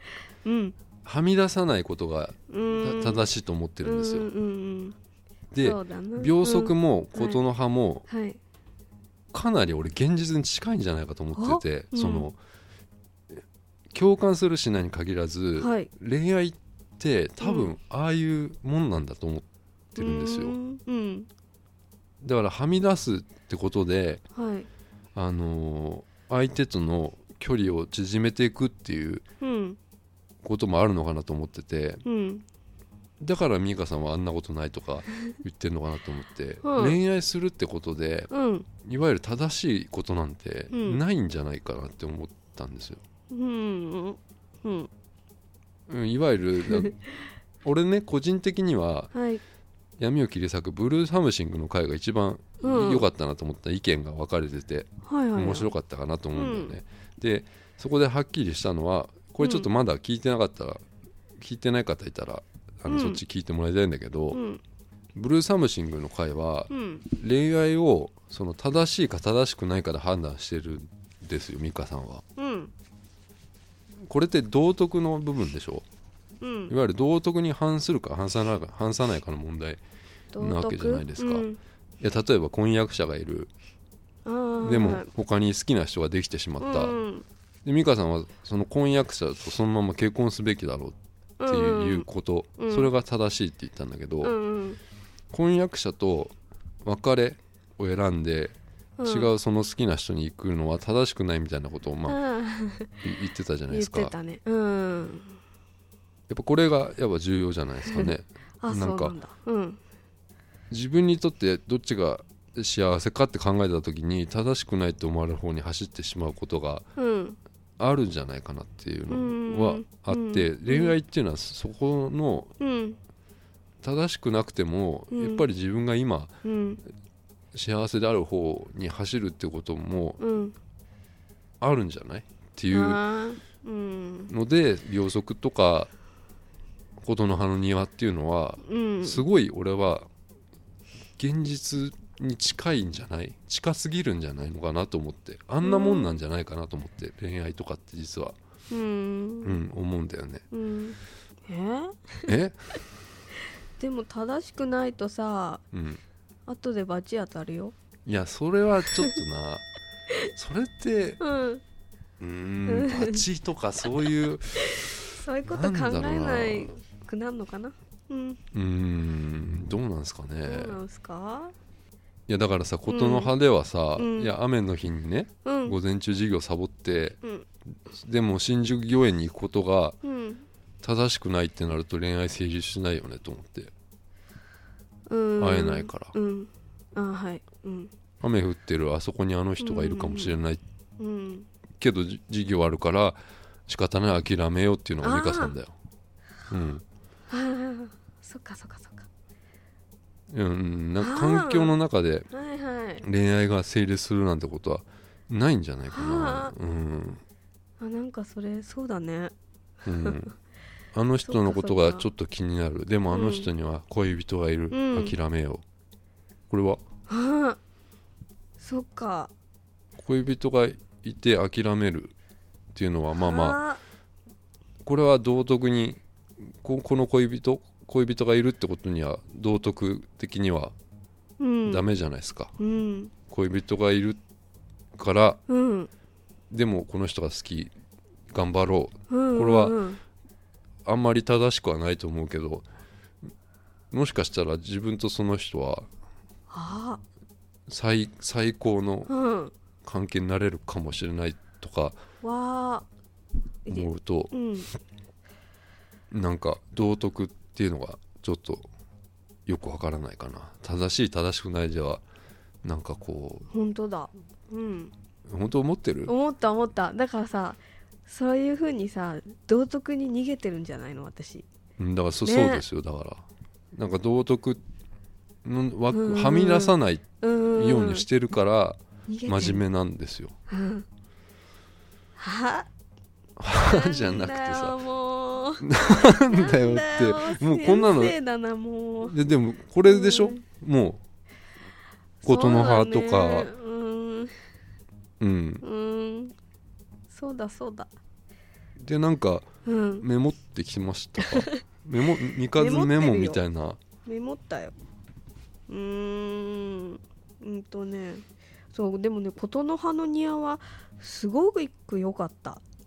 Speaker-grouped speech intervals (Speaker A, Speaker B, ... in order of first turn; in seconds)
Speaker A: 0.4-0.8, 2.5-3.3, 3.8-5.0, 5.6-7.4, 8.1-8.4, 11.3-12.3, 15.6-15.9, 17.4-17.7, 20.0-21.3, 24.3-24.7, 29.4-29.8, 32.0-32.4, 36.6-37.0, 38.3-38.7, 40.7-41.0, 43.3-44.9, 49.1-49.4, 52.6-53.1, 55.0-55.7, 56.3-56.8, 59.4-59.7, 62.9-63.2, 64.3-64.6, 66.7-67.0, 72.4-72.7, 76.4-76.7, 80.3-81.6, 84.2-85.1, 86.6-87.3, 91.4-92.1, 92.6-92.9, 94.2-94.8, 99.0-99.3, 102.1-103.0, 103.7-105.4, 107.9-109.8, 117.0-117.4, 119.1-121.0, 122.6-123.0, 125.1-125.5, 126.4-126.8, 130.2-130.6, 132.7-134.3, 138.7-139.2, 145.6-146.2, 148.7-149.6, 150.5-152.3, 153.8-155.6, 156.5-157.8, 161.2-161.6, 162.7-163.2, 164.7-168.4, 170.5-171.5, 172.9-173.3, 174.0-174.3, 175.4-175.8, 180.0-180.4, 185.1-187.9, 189.6-190.3, 191.0-191.5, 195.0-195.6, 197.3-199.1, 201.0-201.8, 202.3-203.1, 205.9-206.5, 207.8-209.3, 210.0-210.3, 211.2-212.1, 213.1-213.5, 214.7-215.2, 217.1-217.6, 218.6-219.3, 223.1-223.8, 231.4-231.8, 232.6-233.1, 235.5-235.9, 239.1-240.0, 246.5-247.0, 249.1-249.5, 252.2-252.9, 253.7-254.7, 263.5-264.9, 266.1-271.5, 272.2-272.6, 275.9-278.1, 279.1-279.6, 280.5-280.9, 282.2-282.7, 283.6-289.2, 289.9-290.4, 292.2-294.4, 295.6-296.3, 297.1-297.9, 299.6-300.1, 301.2-301.6, 302.5-303.4, 304.1-304.7, 305.7-312.6
Speaker B: 1.0-4.3, 5.5-8.1, 9.3-12.4, 13.9-20.6, 22.2-24.2, 25.1-29.3, 30.4-32.0, 33.2-43.0, 45.9-47.0, 47.6-49.1, 50.0-60.8, 61.4-64.4, 65.2-72.2, 74.1-75.8, 76.7-79.8, 80.4-81.5, 82.0-83.5, 84.6-87.0, 87.7-94.4, 95.3-102.2, 103.0-104.1, 106.3-109.2, 110.7-116.9, 117.8-122.5, 123.8-126.3, 127.5-130.2, 131.6-133.0, 134.3-135.9, 137.0-140.1, 141.2-148.4, 149.4-150.4, 152.3-152.8, 155.7-156.0, 158.1-159.7, 160.3-161.2, 162.2-166.8, 168.5-170.8, 172.3-177.2, 177.9-180.0, 180.8-183.7, 185.4-186.2, 188.2-190.6, 191.8-195.8, 196.5-196.8, 200.3-202.3, 203.0-207.2, 209.8-210.3, 210.9-215.6, 216.5-216.8, 220.0-222.1, 222.7-223.6, 224.8-230.7, 231.7-232.5, 233.3-234.2, 235.0-235.4, 236.5-237.7, 238.3-239.8, 240.9-242.7, 243.9-245.9, 247.7-249.1, 249.8-252.0, 253.7-254.3, 256.1-258.7, 259.5-262.0, 262.6-263.5, 265.3-266.1, 271.8-274.6, 275.4-280.4, 283.4-284.8, 285.6-288.2, 289.0-291.0, 292.2-293.5, 295.2-295.6, 298.8-303.8